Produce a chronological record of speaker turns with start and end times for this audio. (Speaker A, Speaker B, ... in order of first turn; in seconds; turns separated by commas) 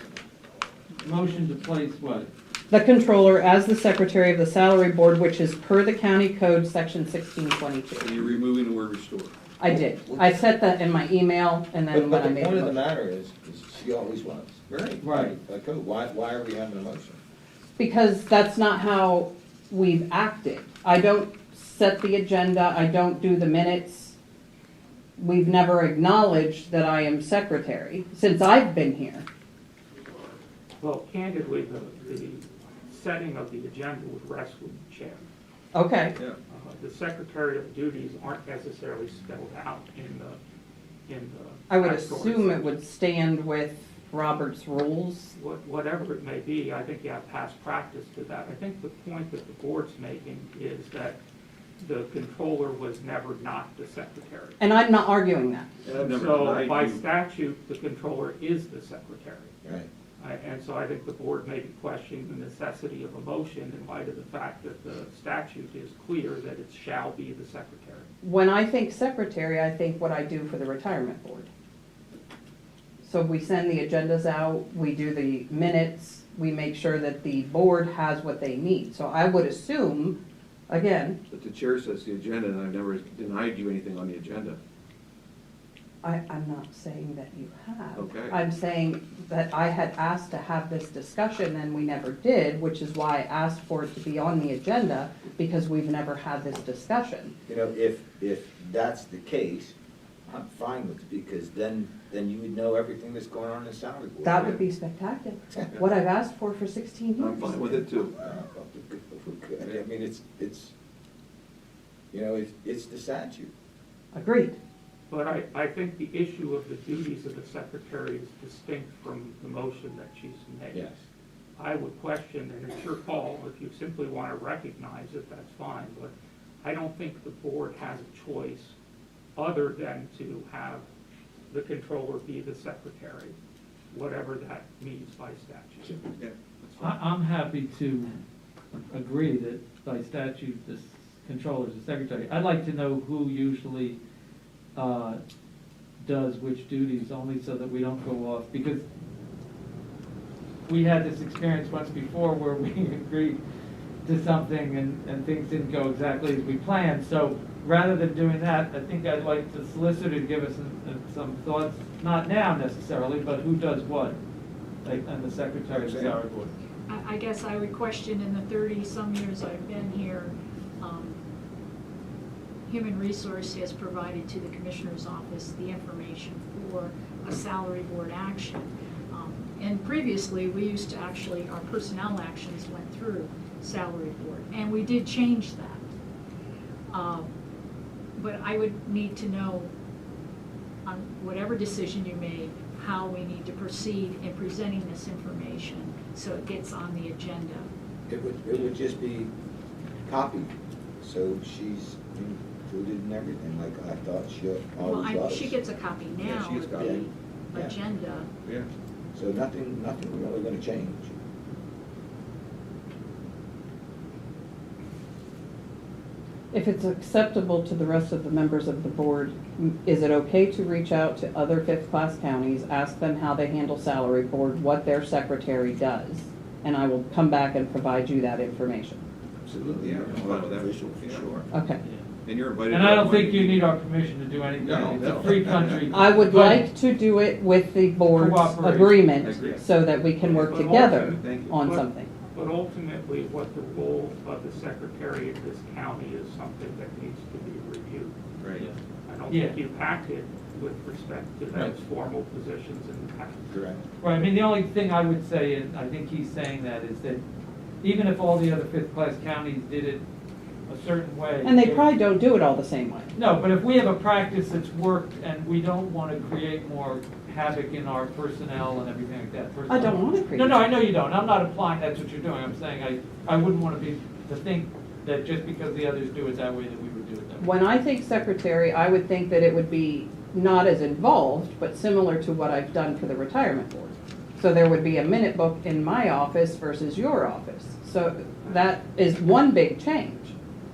Speaker A: 1.0-2.3, Speaker B: 2.7-8.3, Speaker C: 8.0-9.3, Speaker B: 9.6-12.8, Speaker D: 10.1-10.3, Speaker D: 11.9-17.2, Speaker A: 15.0-15.3, Speaker B: 17.8-24.1, Speaker B: 25.2-29.2, Speaker E: 30.8-35.2, Speaker B: 35.7-36.1, Speaker E: 36.5-40.4, Speaker E: 41.1-42.7, Speaker B: 41.7-45.3, Speaker E: 45.3-51.2, Speaker E: 51.8-54.6, Speaker B: 54.6-55.7, Speaker C: 55.8-57.0, Speaker E: 55.9-59.6, Speaker E: 60.2-68.1, Speaker B: 68.2-71.5, Speaker B: 73.0-80.2, Speaker B: 80.7-81.2, Speaker C: 81.3-84.6, Speaker B: 86.0-97.3, Speaker C: 87.9-88.3, Speaker D: 97.5-99.7, Speaker D: 100.3-104.6, Speaker B: 104.2-107.9, Speaker C: 107.2-108.1, Speaker D: 107.5-110.7, Speaker C: 109.6-109.8, Speaker D: 112.1-113.5, Speaker B: 114.1-114.6, Speaker E: 115.1-120.9, Speaker D: 120.7-121.0, Speaker E: 121.5-128.7, Speaker E: 129.3-130.8, Speaker E: 131.5-133.3, Speaker E: 133.9-136.0, Speaker C: 136.1-137.0, Speaker A: 136.8-138.1, Speaker A: 138.9-144.0, Speaker A: 144.7-145.2, Speaker A: 146.0-148.8, Speaker A: 150.6-153.4, Speaker A: 154.0-164.2, Speaker A: 164.8-166.5, Speaker D: 165.7-166.2, Speaker F: 166.9-171.2, Speaker F: 172.7-185.8, Speaker F: 186.9-187.3, Speaker F: 188.2-189.7, Speaker F: 190.8-197.7, Speaker D: 198.1-199.3, Speaker D: 200.0-205.6, Speaker F: 204.8-208.3, Speaker D: 206.2-207.8, Speaker C: 206.3-206.9, Speaker D: 209.1-211.2, Speaker B: 216.5-229.0, Speaker D: 229.5-231.4, Speaker C: 229.6-231.4, Speaker B: 231.5-231.8, Speaker C: 232.2-233.7, Speaker A: 232.7-236.6, Speaker C: 234.6-236.2, Speaker D: 234.7-235.3, Speaker B: 235.9-242.1, Speaker A: 238.1-239.0, Speaker C: 239.2-239.6, Speaker E: 240.2-248.2, Speaker C: 240.4-241.5, Speaker E: 249.1-253.6, Speaker A: 249.3-249.6, Speaker D: 253.5-253.8, Speaker A: 254.0-257.2, Speaker A: 257.8-260.0, Speaker A: 260.7-261.9, Speaker B: 261.4-263.1, Speaker A: 263.1-277.5, Speaker B: 269.7-270.6, Speaker B: 277.4-290.3